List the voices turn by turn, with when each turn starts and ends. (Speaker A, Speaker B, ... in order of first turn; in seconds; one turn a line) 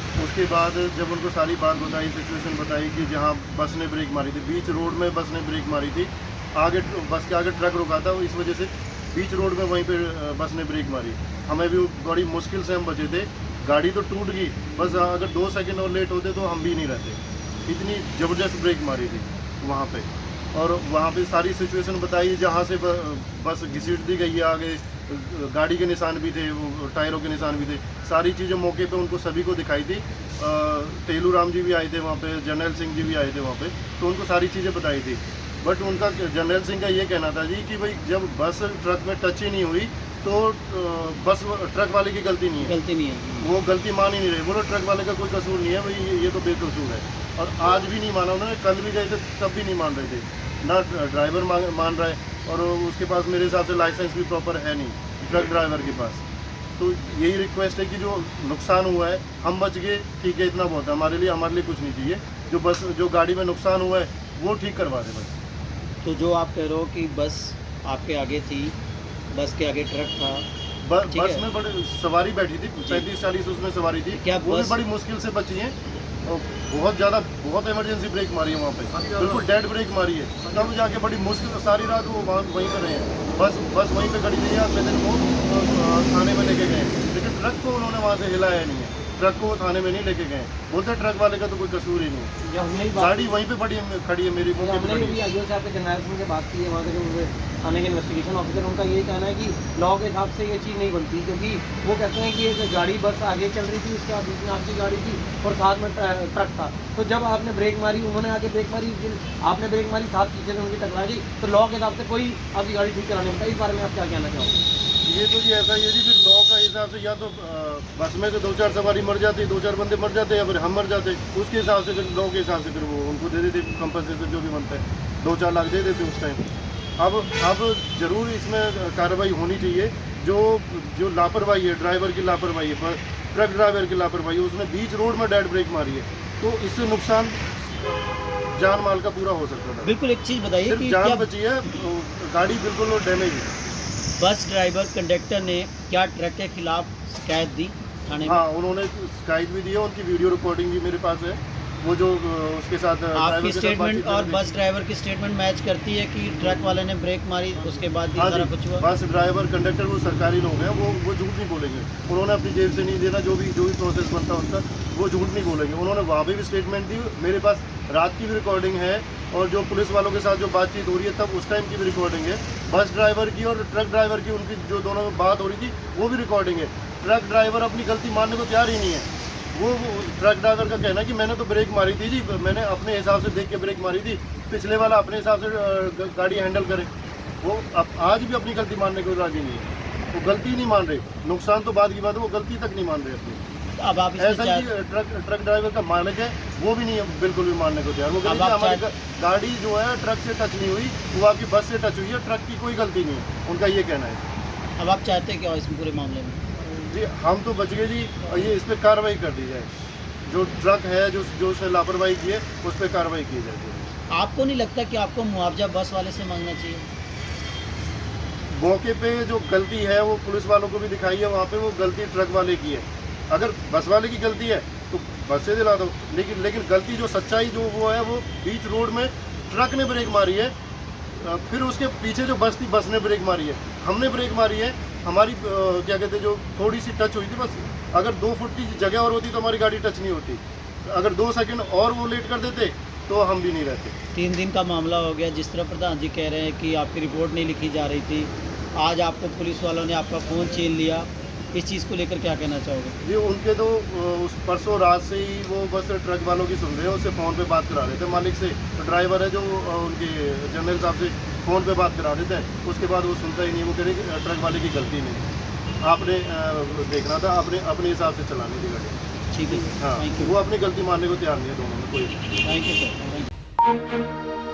Speaker A: 0.2-42.7
Speaker B: 42.6-43.5
Speaker A: 43.4-56.2
Speaker A: 56.8-65.4
Speaker B: 66.0-68.8
Speaker B: 69.3-70.4
Speaker A: 70.8-75.7
Speaker B: 71.1-71.4
Speaker B: 72.8-73.0
Speaker B: 74.1-74.8
Speaker A: 76.2-92.3
Speaker C: 78.9-79.4
Speaker C: 92.4-93.4
Speaker A: 92.9-95.2
Speaker C: 94.6-114.6
Speaker A: 115.0-126.4
Speaker A: 127.0-139.9
Speaker B: 139.8-141.3
Speaker A: 140.6-143.5
Speaker B: 144.2-148.4
Speaker A: 148.2-154.4
Speaker B: 153.1-158.8
Speaker A: 158.1-186.9
Speaker A: 187.4-193.4
Speaker B: 193.8-194.7
Speaker A: 194.2-204.2
Speaker B: 198.2-198.8
Speaker B: 204.8-206.7
Speaker A: 206.9-209.7
Speaker A: 210.2-213.8
Speaker B: 214.1-216.8
Speaker A: 218.5-230.5
Speaker A: 231.2-243.9
Speaker B: 244.1-253.0
Speaker A: 253.0-265.2
Speaker A: 265.8-268.9
Speaker B: 269.3-270.3
Speaker A: 269.8-272.2
Speaker B: 272.4-273.3